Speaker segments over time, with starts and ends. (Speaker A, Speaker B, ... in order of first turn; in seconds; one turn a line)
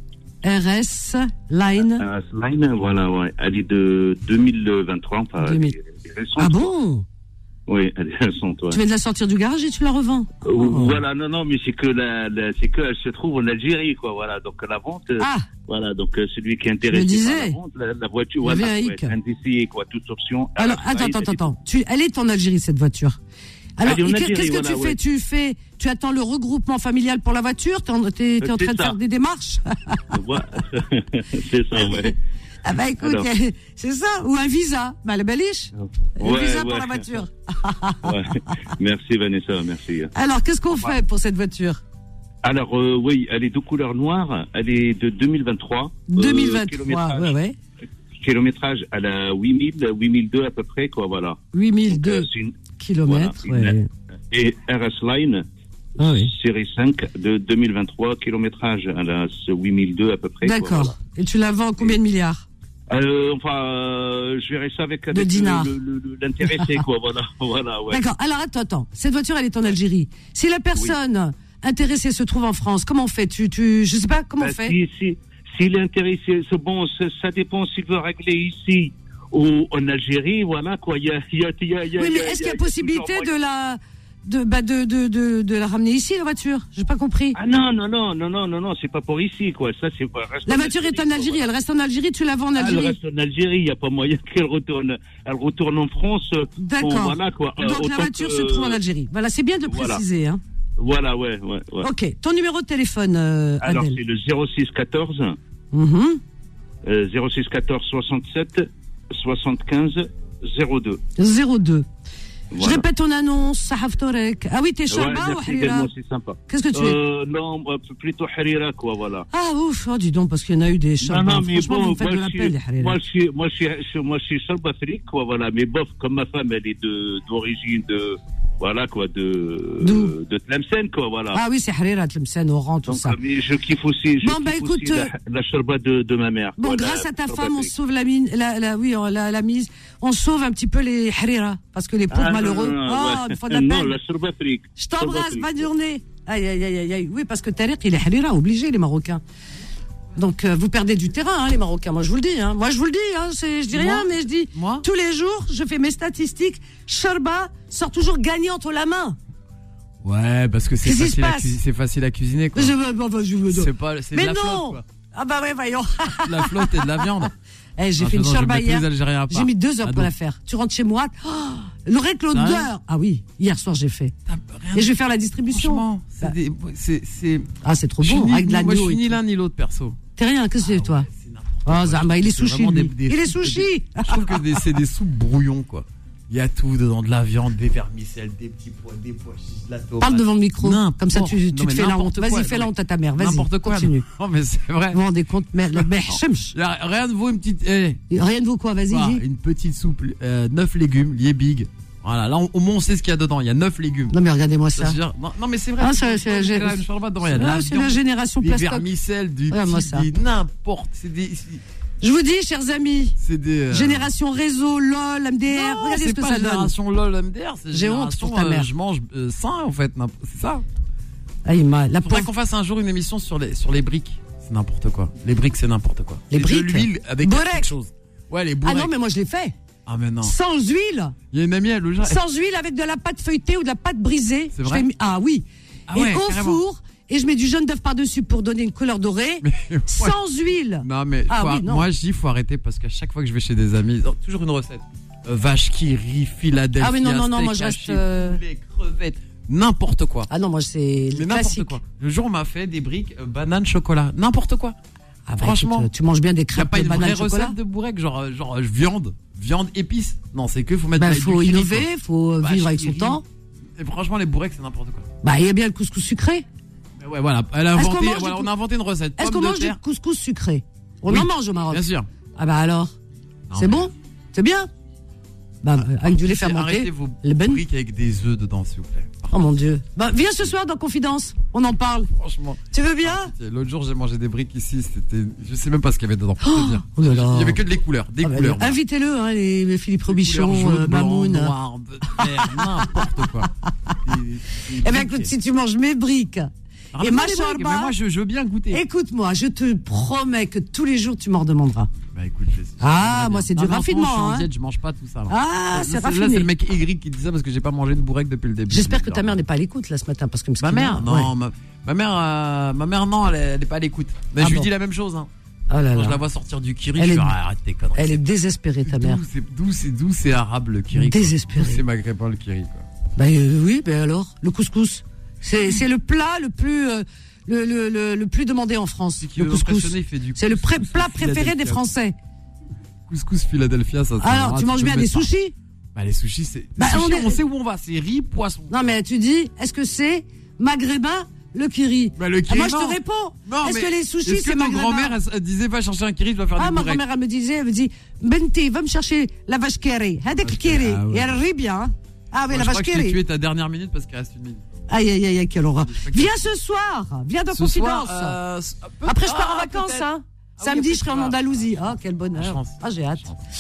Speaker A: 0.4-2.0
Speaker B: 1.9-6.7
Speaker A: 5.4-5.7
Speaker A: 6.4-7.0
Speaker B: 7.7-8.8
Speaker A: 8.7-11.0
Speaker B: 10.4-21.4
Speaker A: 15.2-15.5
Speaker A: 16.9-17.6
Speaker A: 18.4-19.1
Speaker A: 20.6-23.2
Speaker A: 23.8-30.0
Speaker B: 23.8-25.0
Speaker B: 28.4-28.9
Speaker B: 30.1-32.2
Speaker A: 32.6-38.1
Speaker B: 33.0-33.3
Speaker B: 36.2-37.2
Speaker B: 38.0-40.1
Speaker A: 40.1-41.8
Speaker B: 42.4-47.3
Speaker A: 46.1-47.5
Speaker B: 48.2-53.7
Speaker A: 51.5-53.9
Speaker B: 54.3-55.4
Speaker A: 56.0-56.3
Speaker B: 56.0-61.0
Speaker A: 60.4-62.5
Speaker B: 62.9-68.0
Speaker A: 65.1-65.7
Speaker A: 67.9-74.7
Speaker B: 74.4-83.3
Speaker A: 82.0-87.3
Speaker B: 87.3-91.5
Speaker A: 90.5-93.0
Speaker B: 92.5-98.8
Speaker A: 96.6-100.4
Speaker B: 99.7-100.0
Speaker B: 100.8-101.9
Speaker A: 101.8-104.0
Speaker B: 103.6-105.4
Speaker A: 105.7-106.2
Speaker B: 106.8-111.0
Speaker A: 111.2-111.9
Speaker B: 112.5-112.8
Speaker A: 112.5-115.9
Speaker B: 114.9-119.3
Speaker A: 116.5-117.0
Speaker A: 119.3-123.0
Speaker B: 121.0-131.4
Speaker A: 129.8-130.1
Speaker A: 131.3-133.1
Speaker B: 132.9-137.7
Speaker A: 134.2-135.1
Speaker A: 136.6-143.9
Speaker B: 142.1-145.7
Speaker A: 144.8-149.2
Speaker A: 150.2-159.2
Speaker C: 153.7-154.8
Speaker C: 160.0-162.7
Speaker A: 160.8-161.6
Speaker A: 162.5-174.1
Speaker C: 163.5-164.8
Speaker C: 166.2-167.3
Speaker C: 168.0-170.1
Speaker C: 172.3-172.7
Speaker C: 174.3-174.9
Speaker A: 174.7-176.3
Speaker C: 175.5-177.5
Speaker A: 177.6-179.2
Speaker C: 178.0-180.0
Speaker A: 180.2-181.1
Speaker C: 180.6-195.0
Speaker A: 181.7-184.4
Speaker A: 190.0-194.0
Speaker A: 194.9-196.5
Speaker C: 195.7-198.0
Speaker A: 198.1-199.2
Speaker C: 198.9-204.1
Speaker A: 204.1-205.0
Speaker C: 204.8-211.6
Speaker A: 205.8-208.9
Speaker A: 209.5-210.1
Speaker A: 212.0-213.2
Speaker C: 213.2-214.1
Speaker A: 213.7-216.7
Speaker C: 215.5-220.6
Speaker A: 217.7-218.7
Speaker A: 221.4-222.3
Speaker C: 222.0-228.9
Speaker A: 226.3-227.7
Speaker A: 228.6-229.5
Speaker C: 229.8-230.3
Speaker A: 230.2-231.2
Speaker C: 231.3-232.2
Speaker A: 232.0-241.8
Speaker C: 234.5-234.8
Speaker C: 235.9-236.6
Speaker C: 239.4-240.2
Speaker C: 240.8-250.3
Speaker A: 246.8-248.4
Speaker A: 250.3-251.8
Speaker C: 251.1-254.7
Speaker A: 255.3-257.6
Speaker C: 255.4-255.9
Speaker C: 256.5-261.9
Speaker A: 261.0-263.2
Speaker C: 262.4-263.2
Speaker C: 263.8-265.1
Speaker A: 265.2-266.4
Speaker C: 267.0-269.8
Speaker A: 267.7-268.5
Speaker A: 269.2-271.8
Speaker C: 271.1-272.1
Speaker A: 272.4-272.9
Speaker C: 273.5-273.9
Speaker A: 273.5-274.7
Speaker A: 275.6-277.6
Speaker C: 275.8-279.5
Speaker A: 279.3-282.1
Speaker C: 282.1-288.8
Speaker A: 282.7-283.3
Speaker A: 286.4-287.6
Speaker A: 288.2-291.5
Speaker C: 290.1-295.3
Speaker A: 294.8-297.9
Speaker C: 296.9-298.8
Speaker A: 298.7-301.9
Speaker C: 302.1-309.4
Speaker A: 302.8-304.5
Speaker A: 305.3-306.5
Speaker A: 308.7-311.3
Speaker C: 310.6-315.3
Speaker A: 314.4-314.7
Speaker A: 315.7-316.2
Speaker C: 315.9-318.2
Speaker A: 317.0-317.3
Speaker A: 317.9-319.2
Speaker C: 318.8-322.9
Speaker A: 320.9-321.8
Speaker A: 323.1-332.1
Speaker C: 329.2-331.8
Speaker C: 333.1-335.3
Speaker A: 334.2-335.5
Speaker C: 335.9-338.9
Speaker A: 336.8-337.4
Speaker A: 338.7-345.1
Speaker C: 342.2-347.0
Speaker A: 346.6-353.2
Speaker C: 350.4-351.4
Speaker C: 352.5-354.6
Speaker A: 354.9-358.4
Speaker C: 355.9-356.4
Speaker C: 357.5-363.4
Speaker A: 359.0-363.3